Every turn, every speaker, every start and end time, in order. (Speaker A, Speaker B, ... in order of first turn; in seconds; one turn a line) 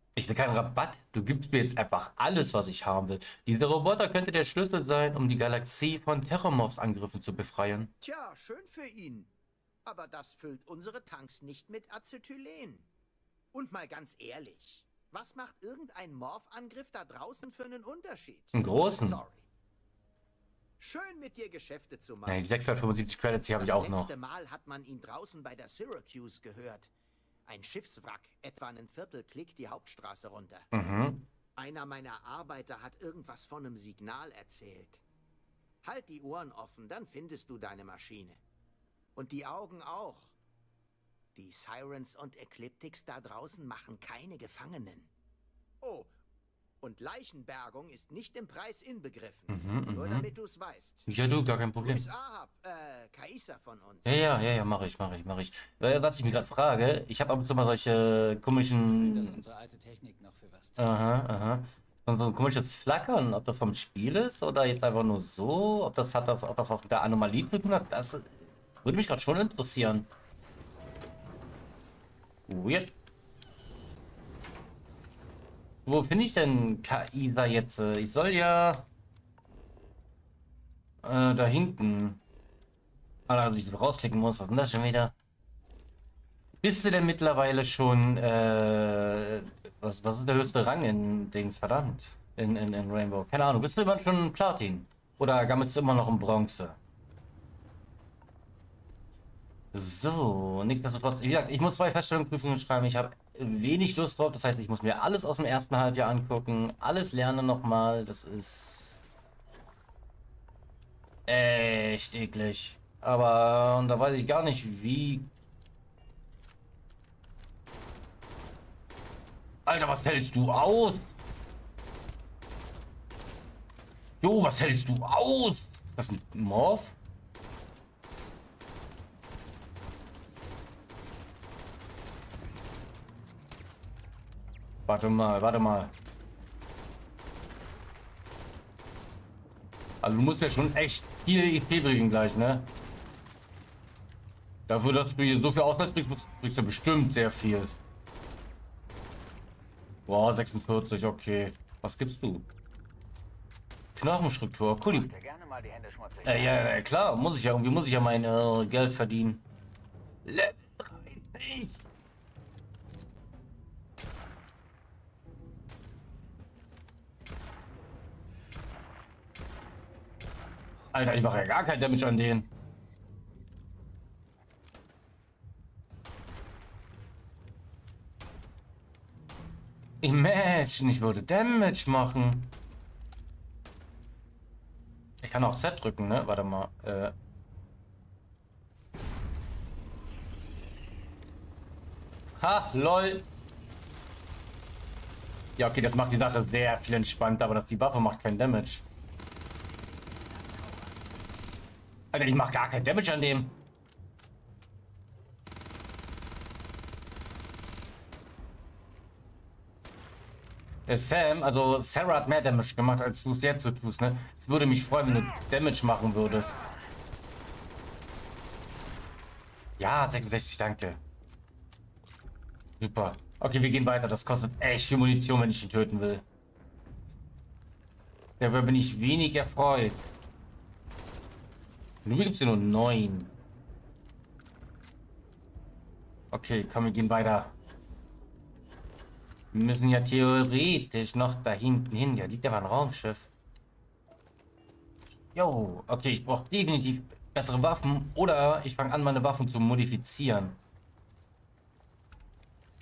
Speaker A: 0.2-7.9
Speaker B: 8.0-9.3
Speaker B: 9.8-12.9
Speaker B: 13.5-19.5
Speaker A: 18.5-19.2
Speaker B: 20.8-22.5
Speaker A: 22.3-24.1
Speaker B: 23.6-26.9
Speaker B: 27.5-30.7
Speaker A: 30.7-31.3
Speaker B: 31.6-35.0
Speaker B: 35.8-38.4
Speaker B: 39.2-40.4
Speaker B: 41.4-45.1
Speaker B: 45.8-46.1
Speaker B: 46.8-51.1
Speaker A: 49.5-50.3
Speaker A: 51.1-52.0
Speaker B: 51.8-54.3
Speaker A: 54.1-59.4
Speaker C: 58.9-61.1
Speaker A: 60.8-70.1
Speaker A: 72.5-72.9
Speaker A: 75.9-78.9
Speaker A: 81.0-82.2
Speaker A: 83.3-85.1
Speaker A: 86.6-96.8
Speaker A: 99.7-109.0
Speaker A: 111.3-115.3
Speaker A: 119.7-121.1
Speaker A: 124.2-127.0
Speaker A: 134.9-135.9
Speaker A: 140.0-142.7
Speaker A: 144.7-147.8
Speaker A: 150.1-152.5
Speaker A: 154.0-155.1
Speaker C: 154.8-156.7
Speaker A: 156.2-159.4
Speaker A: 160.2-161.8
Speaker A: 170.9-172.5
Speaker A: 180.0-182.5
Speaker A: 185.2-187.1
Speaker A: 192.4-193.3
Speaker A: 195.6-198.8
Speaker C: 199.9-201.1
Speaker A: 202.1-203.6
Speaker A: 210.9-216.6
Speaker A: 219.8-221.0
Speaker A: 222.7-226.2
Speaker A: 228.4-230.1
Speaker A: 232.1-233.3
Speaker A: 236.3-237.5
Speaker A: 239.5-243.3
Speaker A: 245.3-250.6